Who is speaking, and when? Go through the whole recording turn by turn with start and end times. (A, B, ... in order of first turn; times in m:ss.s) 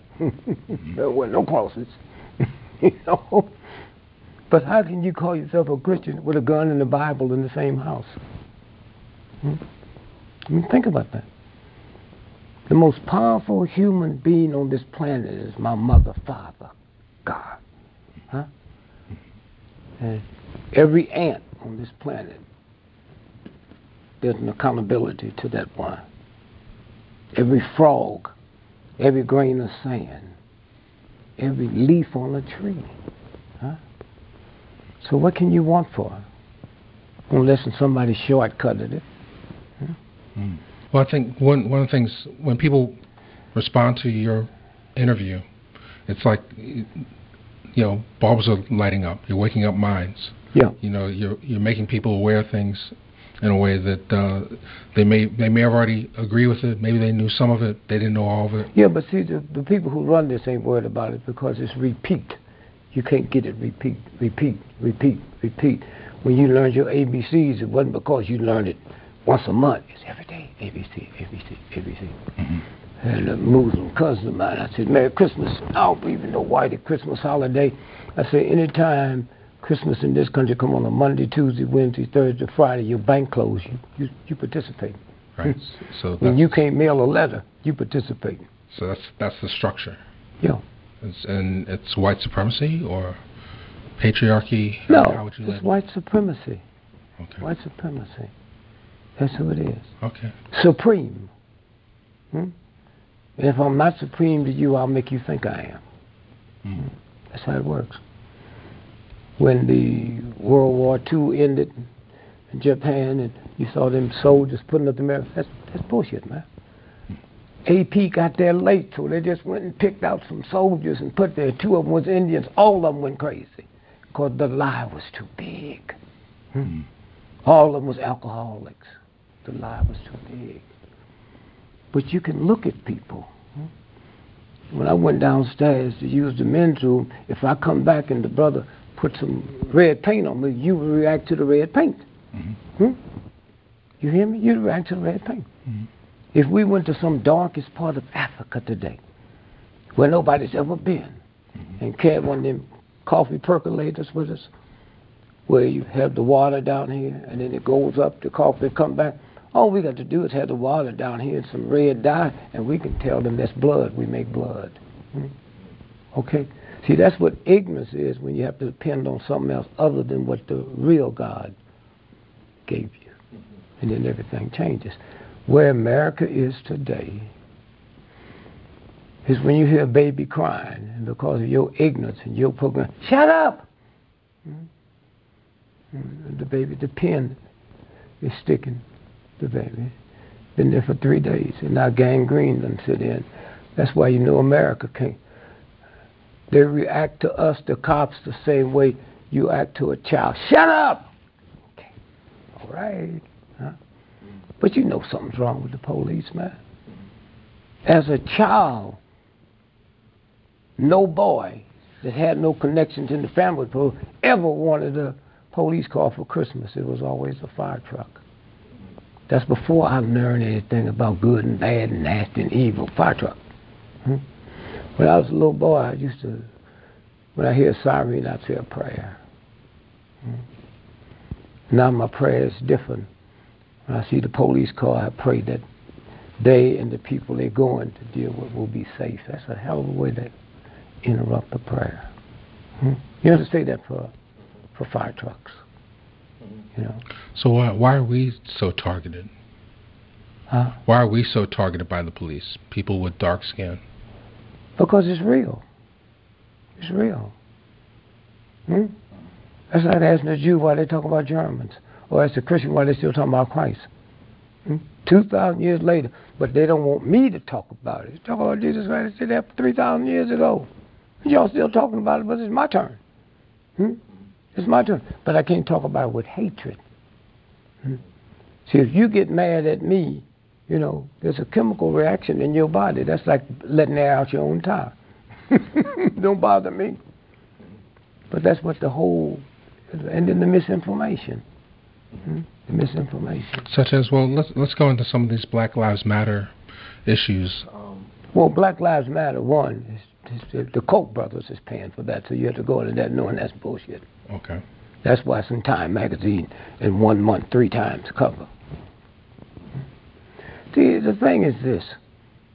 0:00.2-0:03.5 A
0:04.5-0:08.2 A
0:10.5-0:11.2 A
0:12.7-0:16.7 A
0:17.2-0:17.6 A
0:20.0-0:22.4 A
0:24.2-0:26.0 A
0:27.3-0:28.3 A
0:29.0-0:30.3 A
0:31.4-0:33.0 A
0:35.0-0:36.3 A
0:37.3-0:39.0 A
0:40.4-0:43.0 B
0:43.5-0:45.4 B
0:46.1-0:47.0 B
0:47.7-0:58.7 B
0:58.7-1:02.4 A
1:02.9-1:12.2 A
1:13.0-1:25.6 A
1:25.4-1:26.5 B
1:26.2-1:28.5 A
1:28.7-1:30.0 B
1:31.0-1:33.2 B
1:34.0-1:35.7 B
1:34.9-1:36.6 A
1:37.4-1:38.3 A
1:39.2-1:39.9 A
1:40.0-1:40.4 B
1:40.5-1:41.3 A
1:43.4-1:45.8 A
1:47.3-1:48.0 A
1:49.4-1:51.9 A
1:52.5-1:56.4 A
1:57.6-2:06.0 A
2:07.4-2:10.6 A
2:11.9-2:13.6 A
2:14.7-2:22.0 A
2:24.0-2:25.5 A
2:26.3-2:29.0 A
2:30.0-2:31.2 A
2:31.8-2:34.5 A
2:35.5-2:45.3 A
2:46.1-2:51.5 A
2:52.7-2:53.1 A
2:53.8-2:57.3 A
2:59.2-3:03.7 A
3:05.9-3:07.4 A
3:08.2-3:08.8 A
3:09.4-3:09.9 A
3:10.6-3:15.2 A
3:16.5-3:21.1 A
3:22.6-3:23.8 A
3:24.6-3:26.6 A
3:27.8-3:29.0 A
3:30.8-3:38.2 A
3:39.3-3:43.4 A
3:45.0-3:46.5 A
3:47.4-3:49.2 A
3:51.7-3:53.1 A
3:53.9-3:55.6 A
3:56.4-4:00.3 A
4:01.0-4:02.1 A
4:02.8-4:04.1 A
4:04.7-4:05.6 A
4:06.8-4:07.0 A
4:07.3-4:09.3 B
4:10.5-4:10.7 A
4:10.8-4:13.8 B
4:14.8-4:15.6 A
4:16.8-4:17.3 A
4:18.7-4:18.9 A
4:19.7-4:23.9 A
4:24.7-4:30.7 A
4:31.2-4:33.0 A
4:34.5-4:36.8 A
4:38.6-4:44.9 A
4:45.5-4:47.0 A
4:48.3-4:51.4 A
4:52.2-4:53.6 A
4:53.6-4:56.5 B
4:57.0-4:57.7 B
4:58.3-5:04.0 A
5:04.3-5:04.6 B
5:05.0-5:08.5 A
5:10.7-5:12.0 A